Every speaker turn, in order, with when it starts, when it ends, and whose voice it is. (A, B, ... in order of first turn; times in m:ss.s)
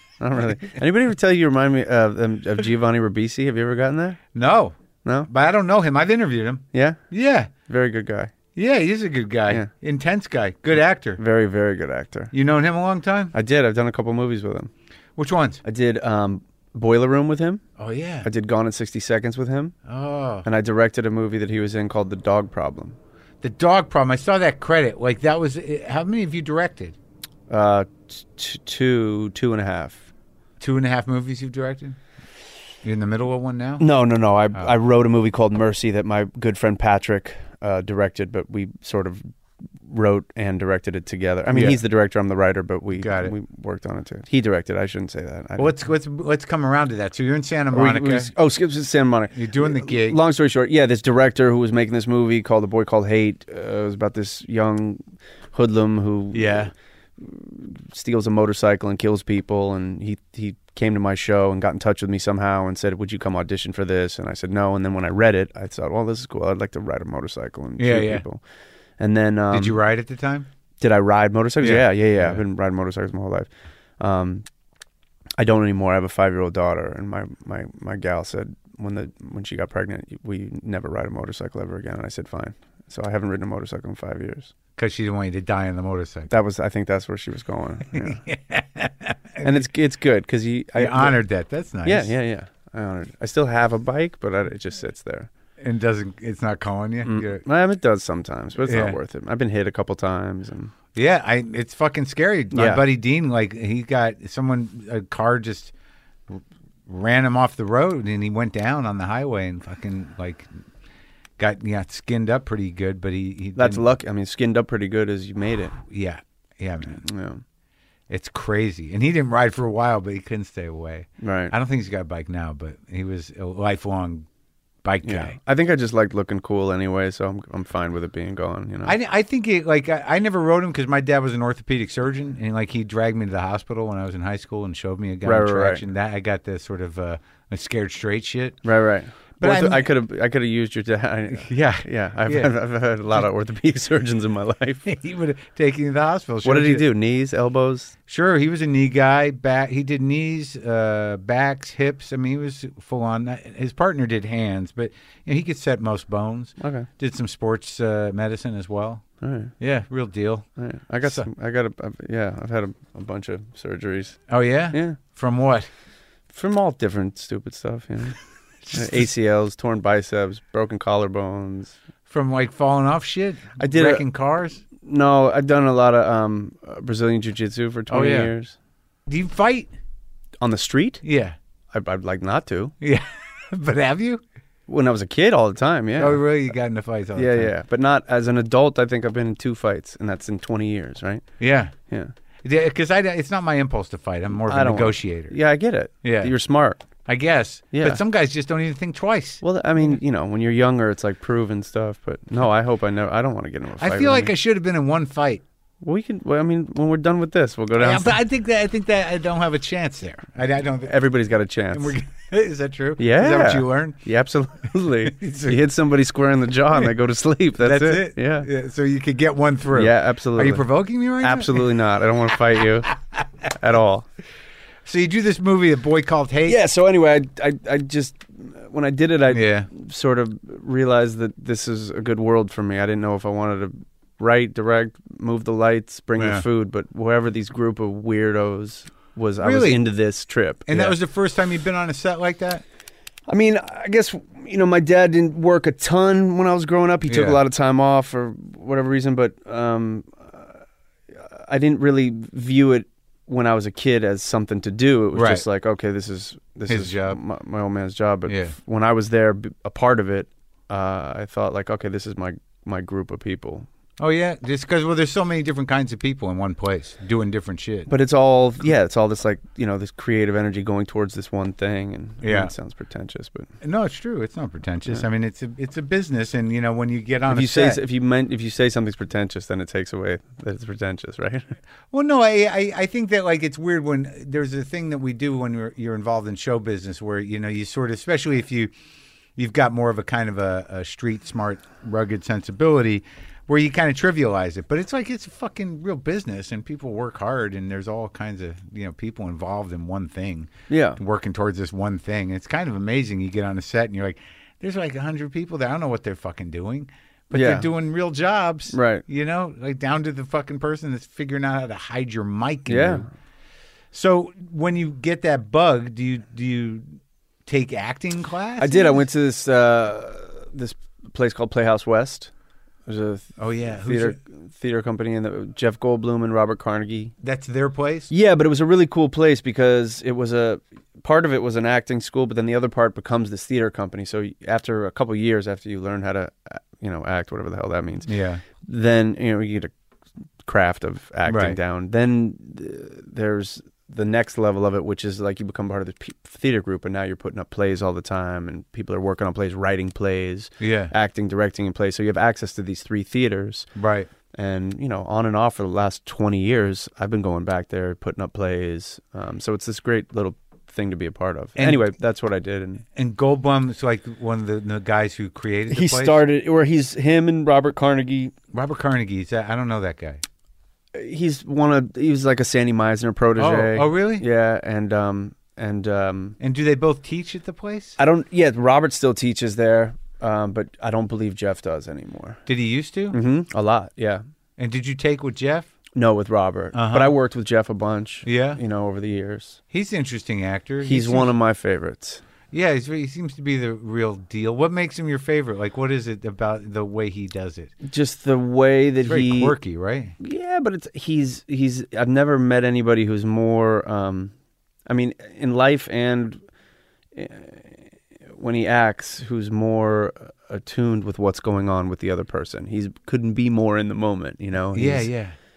0:00.2-0:04.2 A
0:04.3-0:04.8 B
0:05.3-0:07.5 B
0:06.7-0:07.0 A
0:07.7-0:08.3 A
0:08.6-0:11.2 B
0:11.2-0:12.3 A
0:12.3-0:13.3 B
0:13.3-0:14.7 A
0:15.2-0:15.6 B
0:15.6-0:17.6 A
0:17.8-0:18.3 B
0:18.2-0:19.8 A
0:19.9-0:20.5 B
0:20.4-0:23.0 A
0:23.4-0:27.0 B
0:27.5-0:30.1 A
0:30.6-0:32.0 B
0:32.8-0:33.8 B
0:33.8-0:39.2 A
0:39.8-0:45.7 A
0:41.5-0:41.8 B
0:43.0-0:43.4 B
0:45.6-0:48.3 B
0:47.7-0:55.0 A
0:49.3-0:50.2 B
0:55.5-1:08.4 A
0:56.3-0:56.7 B
1:07.8-1:08.2 B
1:09.0-1:09.8 A
1:09.5-1:10.5 B
1:10.8-1:13.5 A
1:11.6-1:12.4 B
1:14.0-1:14.4 A
1:15.4-1:24.5 A
1:24.8-1:26.3 B
1:26.3-1:28.2 A
1:27.9-1:29.7 B
1:29.4-1:31.2 A
1:30.8-1:32.1 B
1:31.8-1:35.3 A
1:35.6-1:37.4 B
1:37.0-1:40.7 A
1:38.6-1:39.0 B
1:41.0-1:45.7 B
1:42.5-1:42.8 A
1:46.3-1:50.5 B
1:51.4-1:53.9 B
1:53.6-1:55.8 A
1:55.8-1:57.0 B
1:57.0-1:57.4 A
1:58.1-2:04.3 B
2:01.2-2:01.5 A
2:04.8-2:05.4 B
2:05.0-2:09.0 A
2:08.8-2:18.6 B
2:15.2-2:15.8 A
2:18.6-2:24.9 A
2:19.4-2:19.9 B
2:21.3-2:22.5 B
2:24.8-2:26.8 B
2:26.4-2:27.9 A
2:28.1-2:39.0 B
2:36.6-2:36.9 A
2:39.2-2:39.5 A
2:39.6-2:40.5 B
2:40.6-2:44.2 A
2:44.3-2:45.7 B
2:44.7-2:45.0 A
2:46.3-2:48.2 A
2:48.7-2:49.1 B
2:48.7-2:51.8 A
2:52.1-2:54.6 B
2:53.6-2:54.1 A
2:54.8-2:58.6 A
2:57.9-2:58.3 B
2:59.1-2:59.7 B
3:00.4-3:01.0 A
3:01.0-3:01.4 B
3:01.7-3:02.7 A
3:02.8-3:04.2 B
3:04.7-3:06.2 A
3:06.0-3:07.5 B
3:07.2-3:11.2 A
3:11.4-3:11.7 B
3:12.4-3:15.4 B
3:14.4-3:16.9 A
3:16.0-3:16.3 B
3:17.1-3:20.0 B
3:17.7-3:18.0 A
3:19.4-3:24.3 A
3:23.8-3:25.4 B
3:25.8-3:28.2 A
3:27.8-3:31.0 B
3:30.8-3:32.0 A
3:31.7-3:34.0 B
3:33.0-3:38.5 A
3:35.0-3:35.6 B
3:37.6-3:41.7 B
3:39.7-3:40.6 A
3:41.2-3:43.0 A
3:43.5-3:44.1 A
3:44.8-3:46.6 B
3:46.5-4:01.0 A
3:49.3-3:49.7 B
3:56.2-3:56.4 B
3:59.4-3:59.8 B
4:00.7-4:02.6 B
4:03.3-4:10.6 A
4:07.1-4:07.4 B
4:11.1-4:23.7 A
4:15.1-4:15.4 B
4:16.7-4:17.2 B
4:18.3-4:18.5 B
4:24.0-4:27.9 B
4:27.9-4:33.5 A
4:32.2-4:32.5 B
4:33.6-4:37.8 B
4:37.3-4:41.6 A
4:41.9-4:48.7 B
4:49.4-5:13.1 B
5:00.7-5:01.0 A
5:07.3-5:07.7 A
5:08.7-5:09.0 A
5:12.7-5:13.1 A
5:13.9-5:19.0 B
5:18.6-5:22.3 A
5:22.9-5:27.1 A
5:23.4-5:24.2 B
5:27.2-5:28.1 B
5:28.1-5:39.7 A
5:38.1-5:38.4 B
5:40.4-5:53.7 A
5:41.3-5:41.6 B
5:50.6-5:50.9 B
5:53.8-5:54.1 B
5:54.3-6:02.8 A
6:01.6-6:01.9 B
6:03.0-6:06.2 B
6:05.7-6:08.3 A
6:08.5-6:10.2 B
6:11.0-6:16.4 A
6:13.4-6:14.2 B
6:16.4-6:18.0 B
6:18.0-6:22.4 A
6:22.5-6:23.2 B
6:23.1-6:24.2 A
6:24.6-6:25.7 B
6:26.0-6:29.6 A
6:26.7-6:27.2 B
6:28.2-6:28.6 B
6:29.7-6:31.3 B
6:30.8-6:32.2 A
6:32.5-6:37.7 B
6:37.8-6:39.6 A
6:39.0-6:40.2 B
6:40.2-6:44.3 A
6:44.9-6:46.4 A
6:47.2-6:55.1 A
6:54.7-6:55.4 B